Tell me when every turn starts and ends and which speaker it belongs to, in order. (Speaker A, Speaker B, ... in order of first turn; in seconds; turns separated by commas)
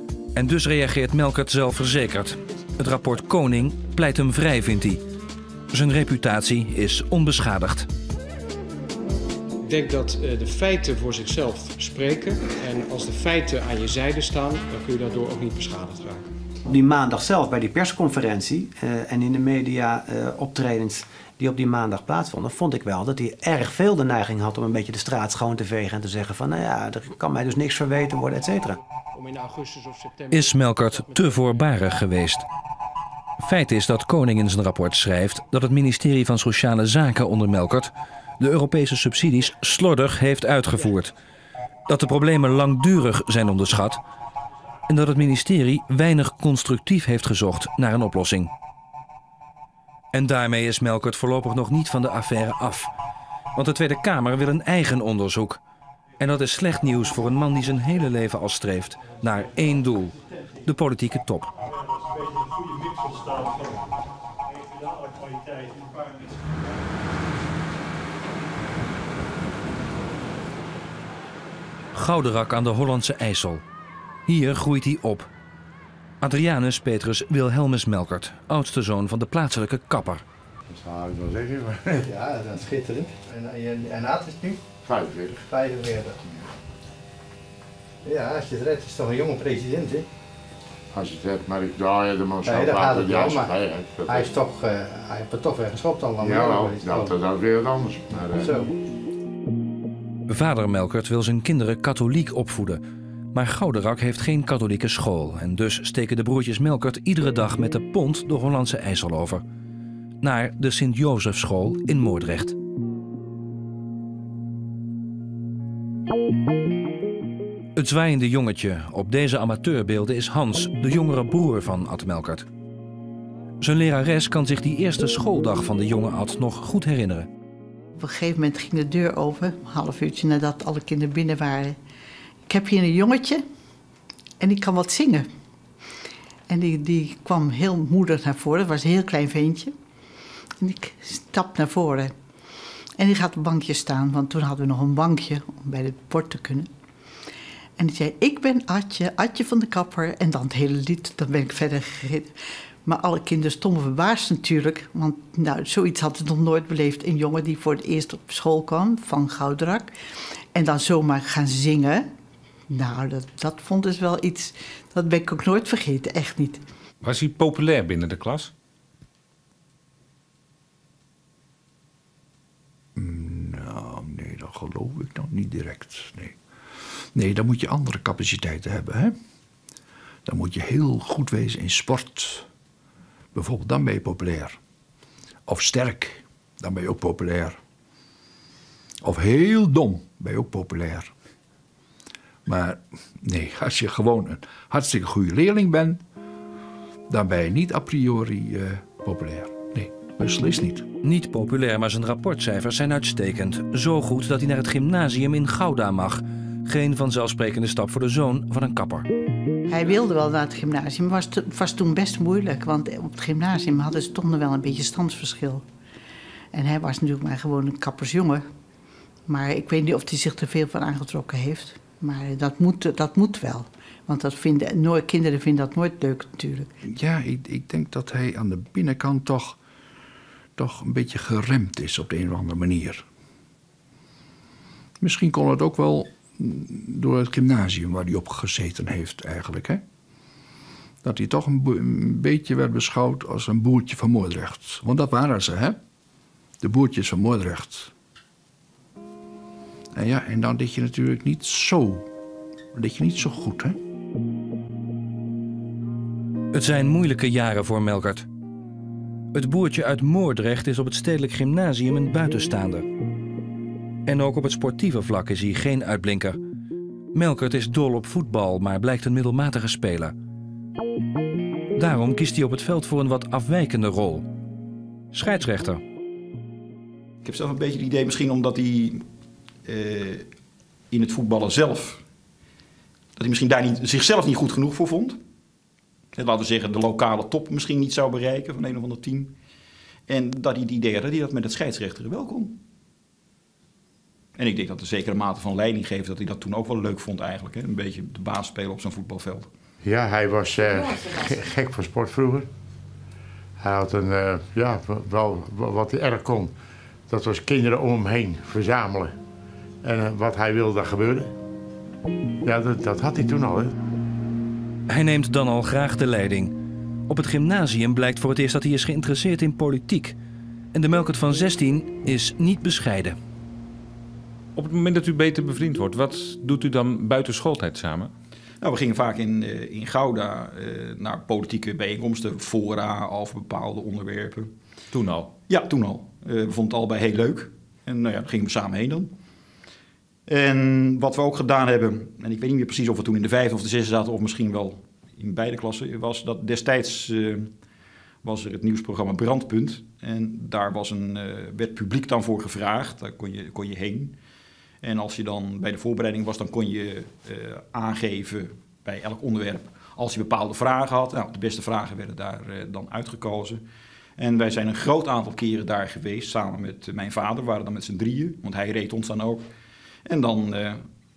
Speaker A: 0.3-5.0, Speaker A: 5.7-7.9, Speaker B: 9.6-16.3, Speaker C: 16.7-28.8, Speaker B: 29.1-31.4, Speaker A: 30.3-32.5, Speaker A: 33.4-41.1, Speaker A: 41.9-44.0, Speaker A: 44.9-48.5, Speaker A: 50.1-52.9, Speaker A: 53.5-55.6, Speaker A: 56.2-61.5, Speaker A: 71.9-73.6, Speaker A: 74.3-75.3, Speaker A: 76.2-80.2, Speaker D: 80.7-81.7, Speaker E: 81.9-84.7, Speaker E: 85.5-86.2, Speaker E: 88.0-90.0, Speaker D: 91.0-93.4, Speaker E: 92.4-97.3, Speaker D: 96.5-98.1, Speaker E: 98.2-98.7, Speaker A: 100.3-102.8, Speaker A: 103.3-109.4, Speaker A: 110.2-112.6, Speaker A: 117.8-122.5, Speaker A: 123.6-127.3, Speaker F: 128.0-131.8, Speaker F: 132.5-133.4, Speaker F: 134.4-135.3, Speaker F: 136.5-139.7, Speaker F: 140.6-142.1, Speaker F: 143.0-146.7, Speaker F: 147.8-152.3, Speaker F: 152.8-159.9, Speaker F: 160.5-162.1, Speaker F: 162.7-166.6, Speaker G: 167.0-168.5, Speaker H: 173.0-176.4, Speaker H: 177.1-179.2, Speaker H: 180.3-182.5, Speaker H: 183.3-184.6, Speaker H: 185.5-187.6, Speaker H: 189.0-191.1, Speaker H: 192.4-196.0, Speaker H: 197.1-200.9, Speaker A: 201.0-209.1, Speaker F: 209.7-215.6, Speaker F: 216.5-218.4, Speaker F: 219.3-226.7, Speaker H: 226.8-229.6, Speaker H: 230.6-233.1, Speaker H: 235.0-239.8, Speaker H: 241.0-245.8, Speaker H: 246.6-247.9, Speaker H: 249.9-252.1, Speaker H: 252.7-253.8, Speaker A: 256.5-258.3, Speaker A: 259.3-262.9, Speaker A: 264.1-266.4, Speaker A: 267.1-270.1, Speaker A: 271.8-274.3, Speaker A: 275.1-275.8, Speaker I: 277.2-279.1, Speaker I: 279.7-280.3, Speaker I: 280.9-282.0, Speaker I: 283.2-285.2, Speaker I: 286.1-289.4, Speaker I: 290.1-292.6, Speaker I: 294.4-299.5, Speaker D: 299.9-302.4, Speaker D: 303.7-306.4, Speaker D: 307.4-308.6, Speaker D: 310.8-311.2, Speaker D: 312.5-312.7, Speaker A: 314.9-316.5, Speaker A: 317.1-320.2, Speaker A: 320.7-323.2, Speaker G: 324.6-328.1, Speaker I: 328.6-334.5, Speaker G: 334.9-335.3, Speaker I: 335.5-339.1, Speaker I: 340.3-347.5, Speaker I: 348.2-354.2, Speaker I: 354.8-363.6, Speaker I: 364.2-369.5, Speaker I: 370.1-370.8